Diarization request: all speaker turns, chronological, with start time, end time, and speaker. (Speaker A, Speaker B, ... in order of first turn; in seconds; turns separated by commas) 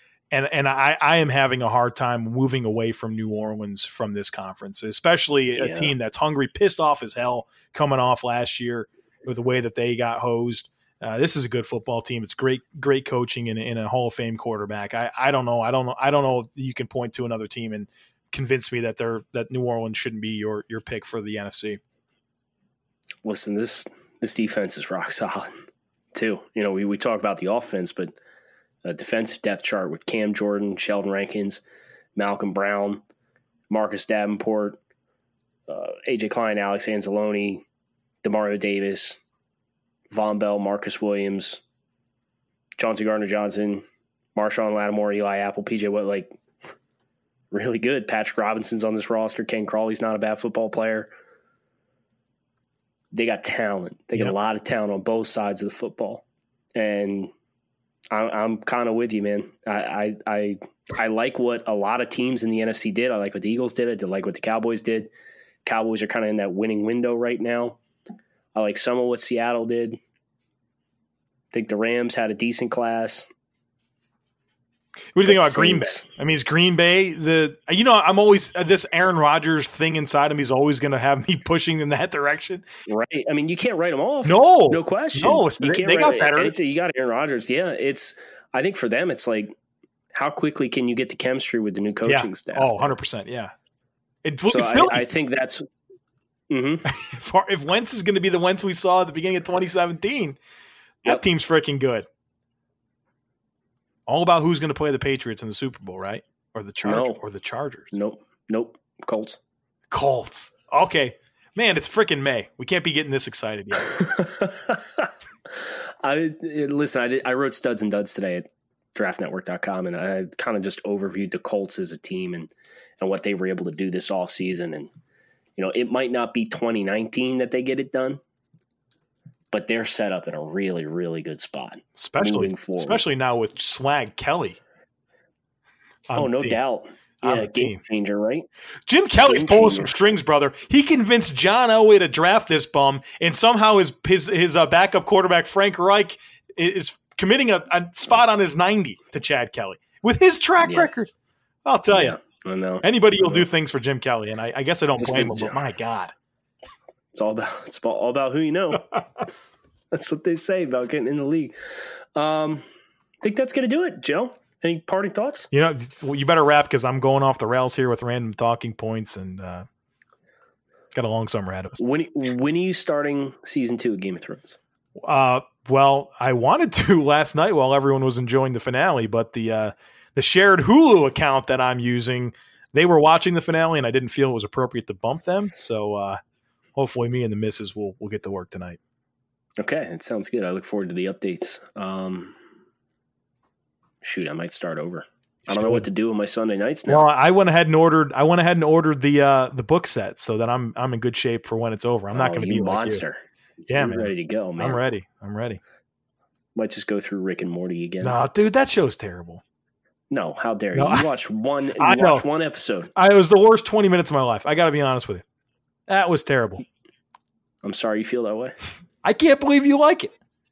Speaker A: 0.3-21.8, Speaker B: 5.6-5.9, Speaker B: 23.2-25.5, Speaker B: 26.1-28.2, Speaker B: 28.9-31.6, Speaker B: 32.2-33.0, Speaker B: 33.7-34.8, Speaker B: 35.7-37.6, Speaker B: 38.2-39.2, Speaker B: 40.1-41.6, Speaker B: 42.8-43.8, Speaker B: 44.4-46.4, Speaker B: 47.5-51.1, Speaker B: 53.1-56.2, Speaker B: 56.8-57.3, Speaker B: 58.1-65.1, Speaker B: 65.7-67.8, Speaker B: 68.5-70.0, Speaker B: 71.5-73.3, Speaker A: 75.2-82.7, Speaker B: 75.3-76.0, Speaker B: 82.9-89.5, Speaker A: 84.2-86.5, Speaker B: 90.1-92.9, Speaker A: 92.1-93.5, Speaker A: 94.2-95.1, Speaker B: 94.5-95.7, Speaker B: 96.5-96.9, Speaker A: 96.9-100.4, Speaker A: 101.0-102.1, Speaker A: 104.1-107.9, Speaker B: 106.8-107.2, Speaker B: 107.9-109.4, Speaker A: 109.9-114.0, Speaker B: 113.9-124.9, Speaker B: 125.6-128.2, Speaker B: 129.5-133.0, Speaker A: 132.0-134.6, Speaker A: 136.1-136.6, Speaker B: 136.2-138.5, Speaker A: 137.2-137.8, Speaker A: 138.9-151.1, Speaker B: 139.2-139.9, Speaker B: 150.6-150.9, Speaker A: 151.7-152.2, Speaker B: 151.9-153.5, Speaker A: 152.8-156.1, Speaker B: 155.0-155.6, Speaker B: 157.1-158.9, Speaker B: 159.9-161.6, Speaker B: 162.2-162.7, Speaker B: 163.2-165.5, Speaker A: 165.5-169.7, Speaker A: 170.9-171.8, Speaker B: 171.8-174.6, Speaker A: 175.0-186.2, Speaker A: 186.8-188.8, Speaker B: 189.6-192.3, Speaker B: 194.0-197.1, Speaker A: 195.5-195.9, Speaker A: 196.9-203.0, Speaker B: 202.1-204.8, Speaker A: 203.7-205.6, Speaker B: 206.6-208.2, Speaker A: 208.0-209.4, Speaker B: 210.1-212.9, Speaker A: 210.7-211.1, Speaker A: 211.8-212.2, Speaker A: 213.0-215.2, Speaker A: 215.9-216.6, Speaker B: 217.6-218.6, Speaker A: 219.0-220.1